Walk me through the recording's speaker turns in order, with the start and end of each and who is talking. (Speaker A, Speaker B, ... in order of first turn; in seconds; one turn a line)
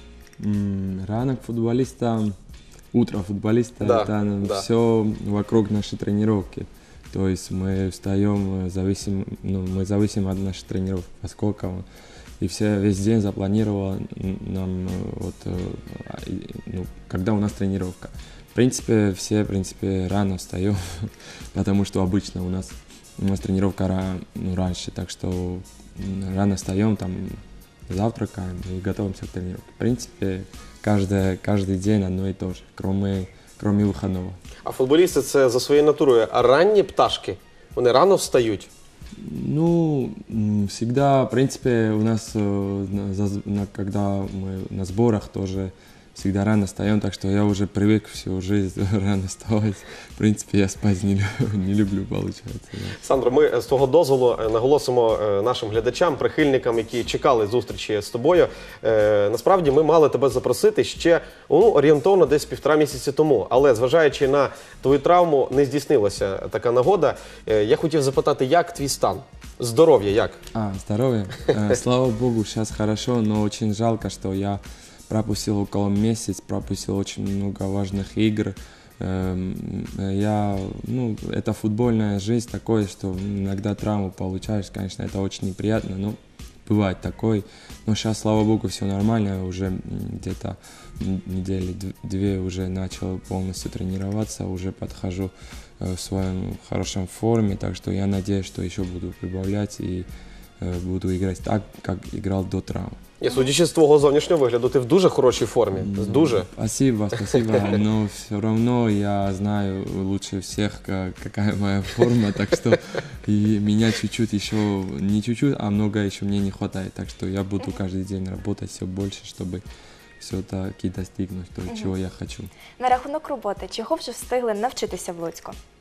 Speaker A: 0.4-2.4
Speaker A: 2.9-11.8
Speaker B: 3.8-4.7
Speaker A: 12.4-34.4
Speaker B: 34.6-38.7
Speaker A: 39.2-53.0
Speaker B: 53.0-70.4
Speaker A: 70.5-100.1
Speaker A: 100.6-103.0
Speaker B: 103.2-106.5
Speaker A: 105.8-119.6
Speaker A: 120.2-122.5
Speaker C: 122.8-125.6